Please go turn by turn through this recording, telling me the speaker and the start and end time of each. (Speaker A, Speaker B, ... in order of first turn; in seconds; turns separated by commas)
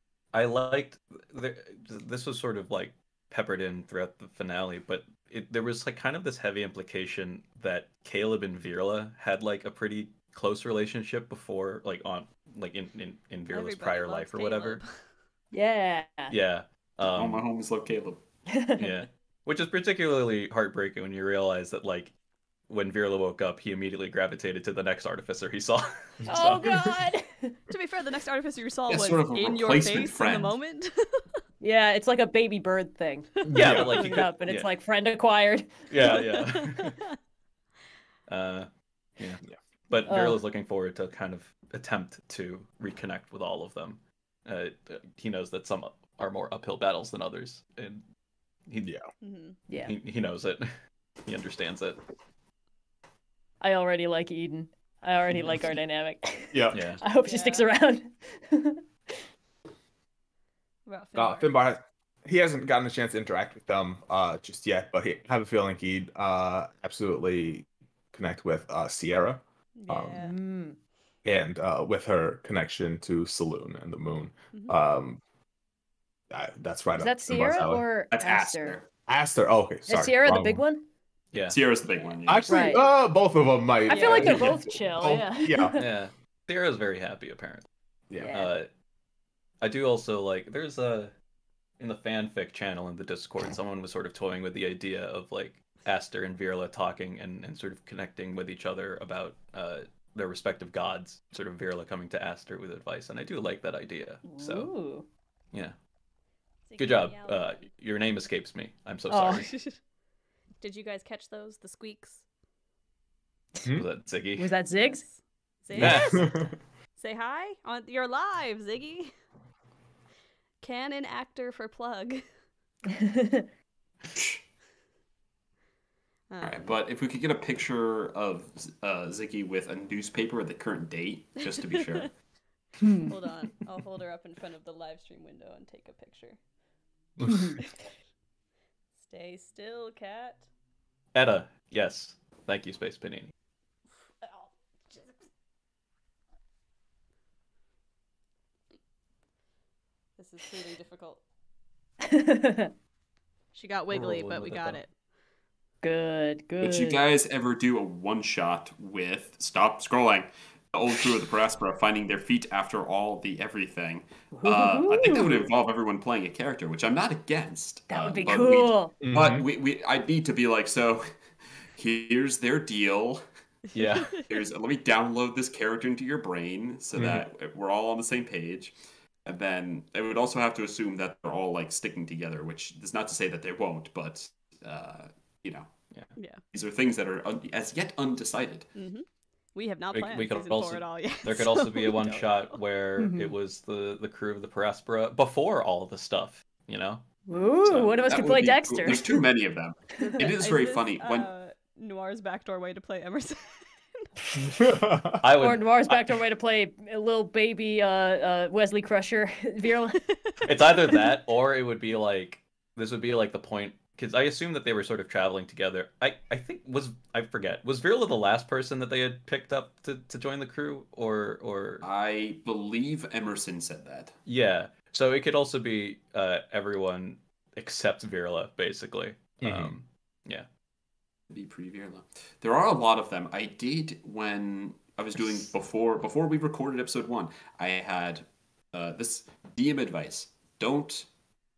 Speaker A: 0.3-14.8, Speaker B: 13.5-14.9, Speaker C: 15.5-16.3, Speaker A: 16.3-17.4, Speaker D: 17.1-18.2, Speaker C: 18.5-19.0, Speaker A: 18.8-22.1, Speaker A: 22.7-26.8, Speaker C: 26.3-27.6, Speaker B: 27.7-31.2, Speaker D: 28.9-30.6, Speaker C: 31.6-36.4, Speaker E: 33.5-34.1, Speaker A: 33.5-34.7, Speaker A: 35.9-37.0, Speaker A: 38.3-48.0, Speaker C: 40.0-40.4, Speaker A: 48.7-49.0, Speaker B: 49.2-49.6, Speaker C: 49.7-49.9, Speaker A: 49.8-50.7, Speaker A: 51.3-52.0, Speaker C: 53.6-58.8, Speaker E: 56.5-56.8, Speaker A: 56.7-57.0, Speaker B: 57.2-57.7, Speaker B: 60.9-61.5, Speaker E: 61.1-70.2, Speaker B: 69.8-70.3, Speaker C: 70.2-70.8, Speaker E: 71.2-75.2, Speaker E: 76.3-77.8, Speaker C: 77.0-78.8, Speaker D: 78.1-78.8, Speaker E: 79.1-80.6, Speaker C: 79.9-80.9, Speaker A: 81.3-81.6, Speaker D: 81.5-82.8, Speaker E: 82.3-85.8, Speaker C: 82.5-82.8, Speaker C: 83.9-85.8, Speaker B: 83.9-84.3, Speaker A: 85.8-87.7, Speaker C: 88.2-88.5, Speaker A: 88.2-88.7, Speaker A: 89.6-91.1, Speaker A: 91.8-104.7, Speaker C: 104.3-105.1, Speaker B: 106.7-107.7, Speaker A: 106.8-109.5, Speaker C: 109.1-109.5, Speaker B: 109.2-109.8, Speaker B: 110.6-112.2, Speaker A: 113.7-114.5, Speaker C: 114.4-115.0, Speaker B: 114.8-119.1, Speaker A: 115.8-116.3, Speaker E: 115.8-116.4, Speaker B: 120.6-122.2, Speaker C: 122.9-123.5, Speaker D: 124.1-124.4, Speaker B: 126.3-126.7, Speaker D: 126.4-132.1, Speaker C: 132.8-133.1, Speaker B: 133.0-136.4, Speaker E: 137.2-137.5, Speaker C: 137.3-137.6, Speaker B: 139.0-140.5, Speaker A: 141.1-143.3, Speaker B: 144.2-145.2, Speaker B: 150.2-151.2, Speaker C: 152.0-152.7, Speaker B: 153.5-154.9, Speaker A: 153.9-154.8, Speaker C: 155.8-157.0, Speaker D: 156.6-171.1, Speaker C: 164.3-165.5, Speaker C: 167.9-168.9, Speaker E: 169.0-169.5, Speaker D: 171.8-173.2, Speaker A: 173.7-174.2, Speaker B: 173.7-174.3, Speaker D: 174.2-185.7, Speaker E: 177.0-177.2, Speaker B: 186.2-186.4, Speaker D: 186.5-188.7, Speaker B: 188.8-192.6, Speaker A: 189.9-197.1, Speaker C: 193.0-193.3, Speaker C: 197.3-199.2, Speaker A: 197.6-198.0, Speaker D: 198.0-201.3, Speaker B: 200.1-203.7, Speaker E: 204.4-205.2, Speaker A: 205.2-206.0, Speaker C: 205.3-210.0, Speaker B: 210.1-211.1, Speaker A: 210.4-221.8, Speaker D: 221.8-224.2, Speaker A: 224.3-230.5, Speaker E: 229.4-229.7, Speaker D: 231.3-241.1